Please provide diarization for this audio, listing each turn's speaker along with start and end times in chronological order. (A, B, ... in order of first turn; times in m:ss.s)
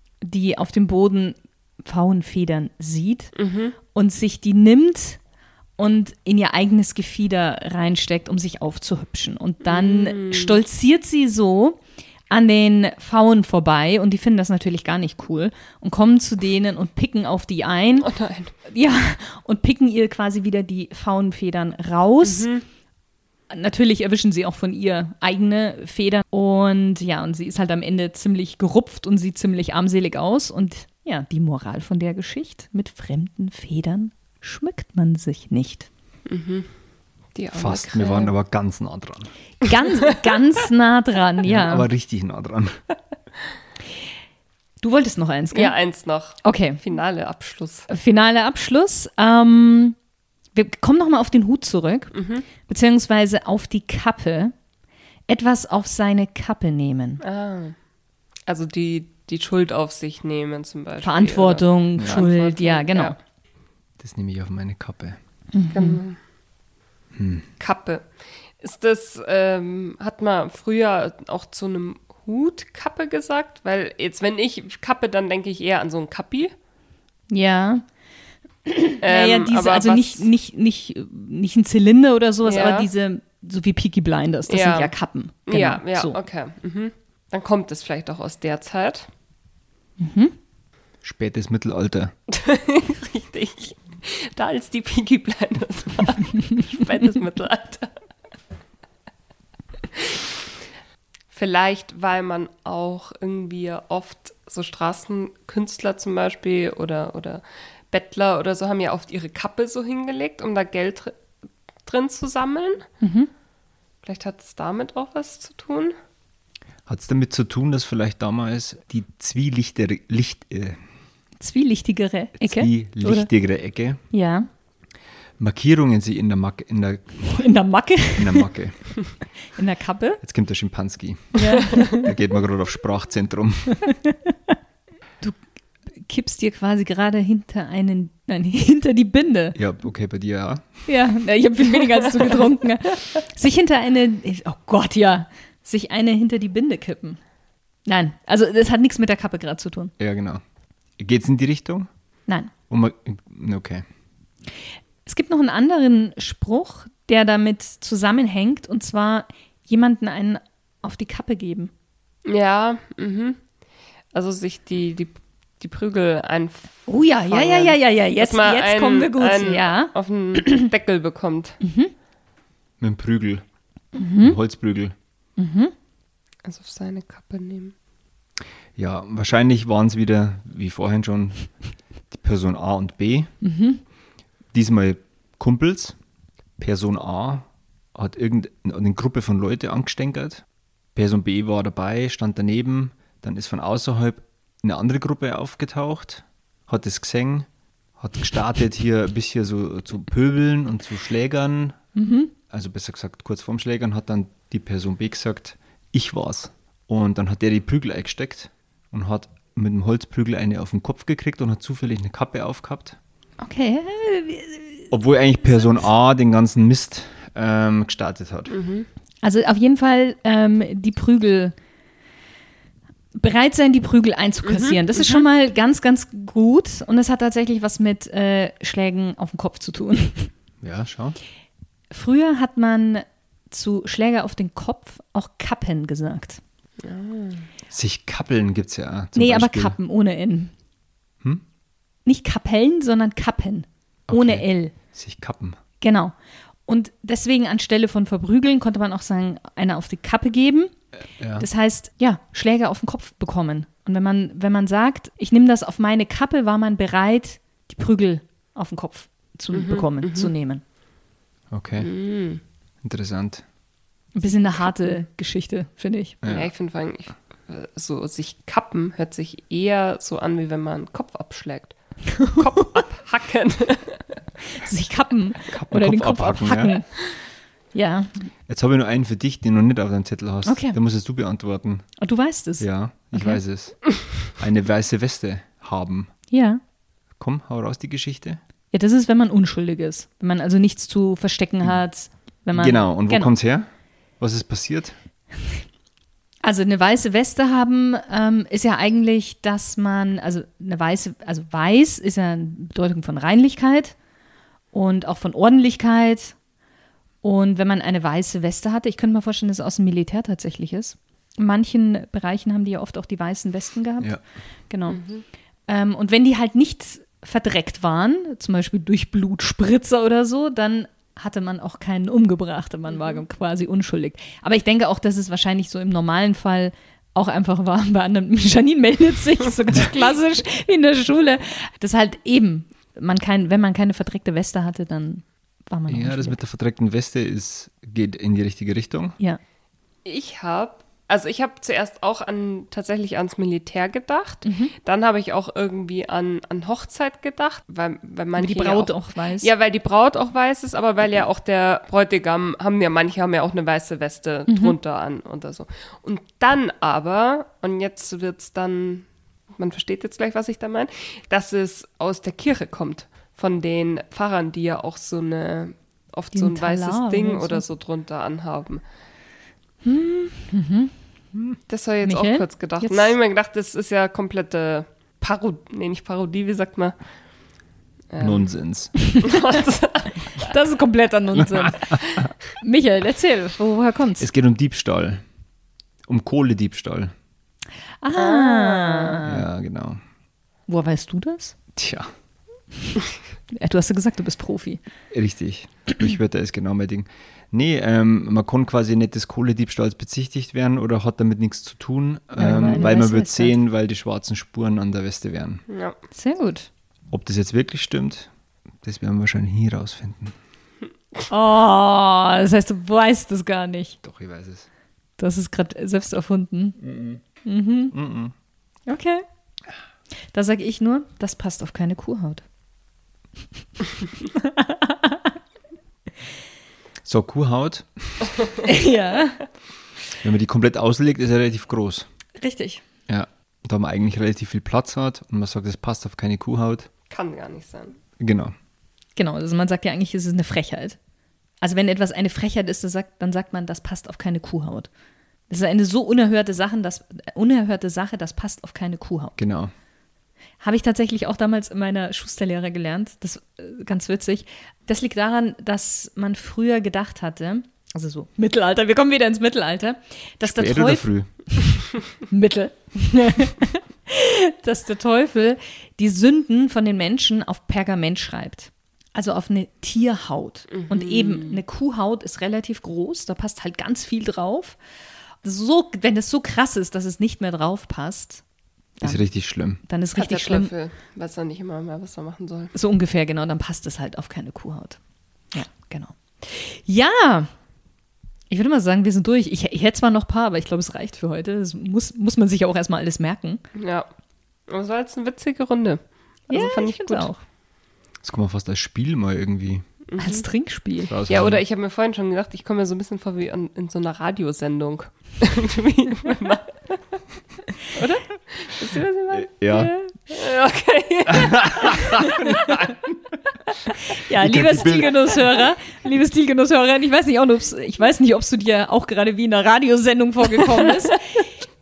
0:00.2-0:03.3 A
0:03.4-0:03.8 B
0:03.9-0:05.2 A
0:05.8-0:18.1 A
0:09.6-0:10.6 B
0:18.0-0:18.5 B
0:18.7-0:22.5 A
0:22.2-0:22.7 B
0:23.5-0:35.9 A
0:36.3-0:36.7 B
0:37.4-0:38.3 B
0:37.5-0:39.3 C
0:39.6-0:41.9 A
0:41.4-0:42.8 C
0:44.8-0:45.8 A
0:45.5-0:47.9 B
0:46.4-0:46.8 A
0:47.9-0:50.0 A
0:50.5-0:54.5 A
0:52.1-0:52.4 B
0:55.3-0:57.2 A
0:57.2-0:57.8 B
0:58.5-1:03.2 B
1:01.0-1:03.2 A
1:02.0-1:02.2 C
1:04.0-1:05.2 C
1:05.5-1:06.0 A
1:05.7-1:06.2 B
1:07.1-1:07.5 C
1:07.6-1:08.1 B
1:08.6-1:16.5 B
1:17.3-1:17.8 A
1:18.7-1:26.2 A
1:19.0-1:20.3 B
1:22.4-1:22.9 B
1:24.5-1:24.9 B
1:25.5-1:29.1 B
1:30.0-1:30.4 A
1:31.0-1:32.1 C
1:32.3-1:37.9 B
1:40.0-1:40.3 B
1:41.3-1:51.2 B
1:51.9-1:52.9 B
1:53.0-1:53.3 A
1:54.0-1:55.9 B
1:56.9-2:00.8 C
2:01.4-2:03.3 A
2:02.4-2:04.0 C
2:04.1-2:04.5 A
2:05.4-2:07.4 C
2:07.3-2:08.5 A
2:08.2-2:08.9 C
2:09.5-2:10.2 A
2:10.2-2:13.8 C
2:11.4-2:12.1 A
2:13.7-2:14.5 A
2:16.0-2:19.6 A
2:19.6-2:20.7 C
2:20.9-2:27.2 A
2:27.9-2:29.9 A
2:30.0-2:30.4 C
2:31.0-2:31.9 C
2:32.7-2:33.8 C
2:35.1-2:41.7 A
2:42.2-2:43.4 B
2:44.1-2:51.6 B
2:46.9-2:50.7 A
2:51.6-2:51.9 A
2:52.8-2:53.4 C
2:54.0-2:54.4 A
2:54.2-2:54.9 C
2:55.4-2:55.7 A
2:56.4-2:57.7 B
2:58.8-3:01.5 C
3:02.1-3:03.3 C
3:03.4-3:03.8 A
3:04.5-3:06.0 C
3:06.6-3:10.4 C
3:11.0-3:21.8 C
3:22.0-3:22.3 A
3:22.5-3:33.0 C
3:33.4-3:34.9 A
3:34.9-3:38.6 C
3:38.5-3:38.9 B
3:39.2-3:41.6 A
3:43.2-3:50.3 A
3:44.4-3:45.3 B
3:50.6-3:51.2 C
3:51.9-3:56.4 A
3:56.8-3:57.5 B
3:57.7-3:59.8 C
3:59.2-4:00.5 A
4:02.1-4:04.8 A
4:04.1-4:05.6 C
4:05.8-4:06.1 A
4:06.7-4:10.7 A
4:11.2-4:11.5 C
4:11.4-4:20.6 A
4:19.5-4:20.3 B
4:21.5-4:21.9 C
4:21.8-4:22.4 B
4:22.8-4:23.4 C
4:24.2-4:26.2 A
4:24.2-4:24.8 B
4:26.2-4:26.5 C
4:26.3-4:34.2 B
4:32.1-4:32.6 A
4:34.5-4:37.0 A
4:35.5-4:36.8 C
4:37.7-4:38.2 A
4:38.5-4:41.9 C
4:40.5-4:40.8 A
4:42.0-4:43.4 A
4:42.6-4:46.1 C
4:46.3-4:46.6 A
4:47.2-4:48.4 C
4:48.7-4:53.3 A
4:52.5-4:53.7 C
4:54.2-4:54.9 C
4:56.4-5:04.0 A
5:04.7-5:06.4 A
5:07.2-5:14.2 A
5:14.7-5:15.0 A
5:14.9-5:15.2 B
5:15.7-5:36.4 A
5:22.9-5:23.2 B
5:35.9-5:39.2 C
5:40.0-6:08.8 B
5:44.4-5:44.7 A
5:48.4-5:49.5 A
5:54.5-5:54.8 A
6:06.3-6:07.6 A
6:09.8-6:10.9 A
6:11.7-6:17.0 B
6:12.0-6:13.2 A
6:18.1-6:18.5 B
6:18.2-6:18.9 C
6:19.0-6:19.3 A
6:19.2-6:20.5 B
6:20.3-6:24.3 A
6:21.4-6:22.3 C
6:24.2-6:25.2 C
6:26.1-6:27.1 C
6:28.0-6:29.5 A
6:28.2-6:29.2 B
6:29.3-6:30.0 C
6:30.7-6:31.6 A
6:31.8-6:32.1 C
6:33.5-6:34.8 A
6:35.1-6:45.6 C
6:42.4-6:43.6 A
6:42.5-6:42.9 B
6:45.7-6:46.0 B
6:46.1-6:46.7 A
6:47.1-6:48.3 C
6:48.8-6:50.4 C
6:51.3-6:54.0 A
6:54.0-6:54.7 C
6:55.2-6:56.8 A
6:56.8-6:57.2 C
6:57.4-6:58.0 A
6:57.9-6:58.3 C
6:58.9-6:59.2 A
7:00.3-7:02.4 A
7:04.3-7:05.3 A
7:07.0-7:08.4 C
7:08.6-7:09.4 A
7:10.2-7:12.1 C
7:12.4-7:12.8 A
7:13.1-7:16.9 C
7:17.1-7:18.0 B
7:18.2-7:18.5 C
7:19.2-7:21.0 A
7:21.6-7:24.9 A
7:25.5-7:29.4 A
7:29.4-7:29.7 C
7:30.6-7:41.1 A
7:40.4-7:41.3 C
7:42.3-7:54.8 A
7:50.7-7:51.6 B
7:55.4-7:58.4 A
7:59.0-7:59.2 A
7:59.0-7:59.8 C
7:59.8-8:00.7 A
8:00.2-8:02.7 B
8:02.7-8:05.0 A
8:05.5-8:07.5 A
8:08.5-8:13.6 A
8:13.7-8:14.1 B
8:14.7-8:17.3 B
8:16.5-8:17.4 A
8:18.2-8:19.8 C
8:20.1-8:20.5 B
8:20.2-8:21.1 A
8:21.1-8:21.6 C
8:21.3-8:27.0 B
8:27.9-8:32.4 B
8:29.3-8:29.9 C
8:31.3-8:33.2 C
8:34.1-8:41.4 A
8:34.4-8:35.4 C